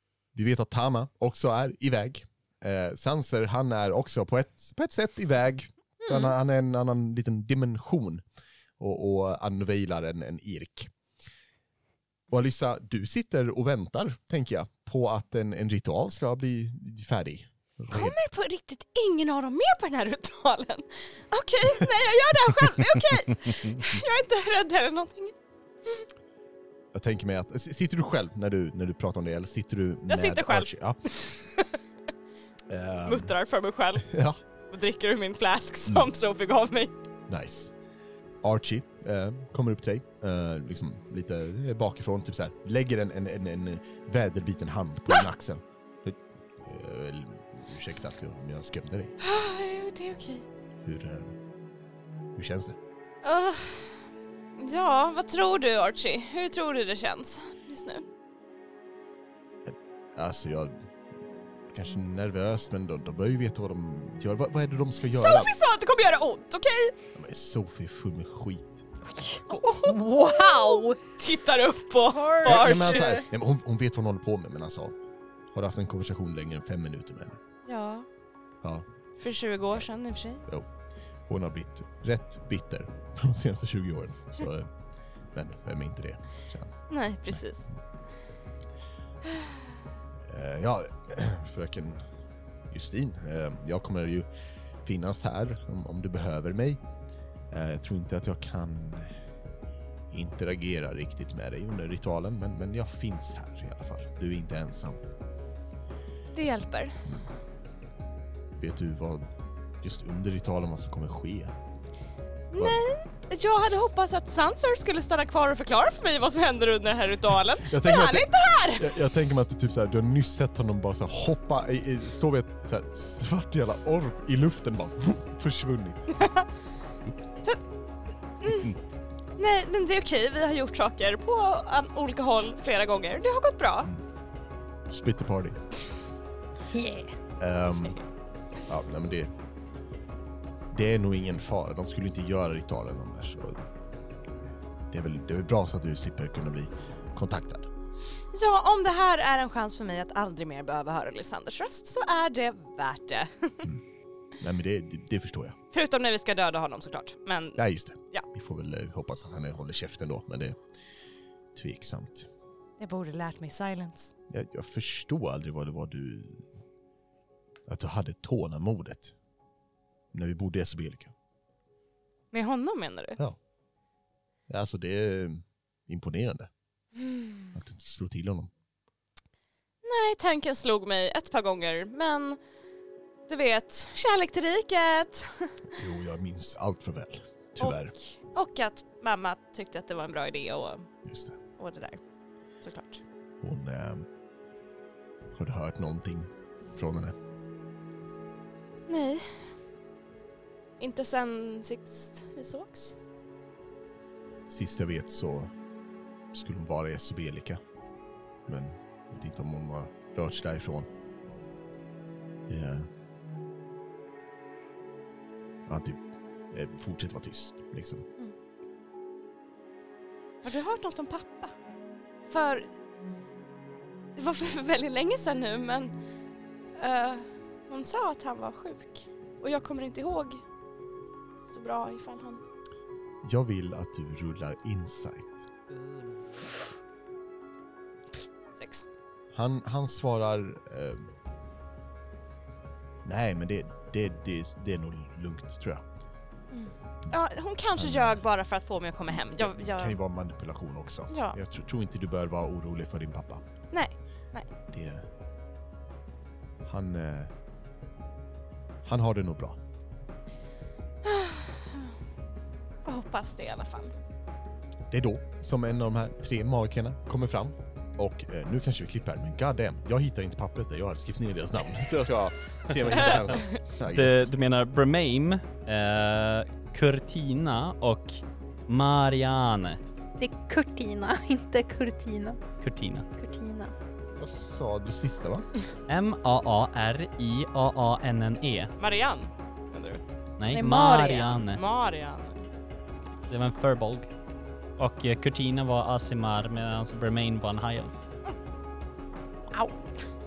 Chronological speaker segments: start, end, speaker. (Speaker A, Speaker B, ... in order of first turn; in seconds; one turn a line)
Speaker A: 0.3-8.2
Speaker B: 6.0-6.3
Speaker A: 8.8-10.9
Speaker A: 12.3-18.2
Speaker C: 17.9-25.3
Speaker A: 26.9-31.0
Speaker C: 30.1-31.7
Speaker A: 32.7-33.3
Speaker C: 33.1-34.1
Speaker A: 34.0-34.4
Speaker C: 34.7-36.9
Speaker A: 37.3-37.7
Speaker A: 38.4-49.1
Speaker C: 49.2-50.4
Speaker A: 50.8-51.3
Speaker A: 52.3-52.8
Speaker C: 53.2-54.0
Speaker C: 54.6-58.0
Speaker A: 59.6-60.8
Speaker A: 61.7-65.5
Speaker C: 65.1-66.9
Speaker A: 67.1-68.8
Speaker B: 69.1-71.0
Speaker C: 69.5-69.9
Speaker D: 70.2-71.0
Speaker C: 71.2-73.2
Speaker A: 72.4-75.0
Speaker A: 75.5-77.4
Speaker C: 77.6-78.0
Speaker C: 79.2-80.4
Speaker A: 81.3-84.7
Speaker A: 85.3-86.7
Speaker C: 86.9-87.7
Speaker A: 90.3-92.1
Speaker A: 92.7-94.3
Speaker A: 94.8-96.8
Speaker A: 97.5-99.2
Speaker A: 100.1-105.0
Speaker C: 106.3-107.0
Speaker A: 108.6-109.2
Speaker A: 109.8-111.5
Speaker C: 112.5-118.9
Speaker A: 112.6-112.9
Speaker A: 117.7-126.2
Speaker C: 126.2-126.5
Speaker C: 128.4-128.8
Speaker C: 129.4-133.9
Speaker A: 134.9-135.6
Speaker B: 136.7-137.1
Speaker A: 137.4-138.0
Speaker A: 138.7-139.3
Speaker A: 140.7-143.6
Speaker A: 144.9-147.7
Speaker C: 148.3-153.7
Speaker A: 154.4-155.6
Speaker C: 155.7-158.2
Speaker A: 157.6-160.6
Speaker A: 161.5-162.3
Speaker C: 162.8-164.1
Speaker A: 164.3-166.4
Speaker A: 167.7-169.1
Speaker A: 170.1-171.1
Speaker C: 172.3-173.2
Speaker A: 174.5-176.5
Speaker A: 177.5-178.5
Speaker C: 179.8-182.4
Speaker C: 183.3-185.5
Speaker A: 185.7-187.9
Speaker C: 187.6-190.9
Speaker A: 191.1-191.4
Speaker C: 191.6-192.0
Speaker C: 192.6-193.0
Speaker A: 193.4-194.1
Speaker A: 195.3-197.2
Speaker C: 198.9-199.4
Speaker C: 200.8-202.9
Speaker A: 204.4-205.5
Speaker A: 206.3-207.6
Speaker A: 208.5-210.9
Speaker A: 212.5-212.9
Speaker A: 215.7-218.1
Speaker C: 220.4-221.5
Speaker C: 222.3-222.7
Speaker C: 224.2-225.9
Speaker C: 226.8-230.4
Speaker C: 231.5-232.4
Speaker A: 233.2-235.5
Speaker C: 238.5-238.8
Speaker A: 239.3-241.1
Speaker A: 243.0-245.8
Speaker C: 246.5-250.0
Speaker A: 247.8-248.2
Speaker A: 249.1-253.4
Speaker C: 251.1-251.3
Speaker C: 253.7-254.5
Speaker A: 254.7-255.1
Speaker A: 256.6-257.3
Speaker A: 258.8-259.6
Speaker C: 261.0-261.9
Speaker C: 262.8-263.9
Speaker A: 264.9-274.3
Speaker C: 273.1-273.6
Speaker E: 273.9-279.8
Speaker D: 280.2-282.4
Speaker E: 282.6-283.0
Speaker D: 283.1-283.7
Speaker A: 284.2-285.5
Speaker E: 285.9-288.7
Speaker C: 288.8-290.0
Speaker E: 290.4-291.6
Speaker D: 290.5-291.4
Speaker C: 291.5-292.4
Speaker E: 293.3-294.1
Speaker E: 294.8-298.0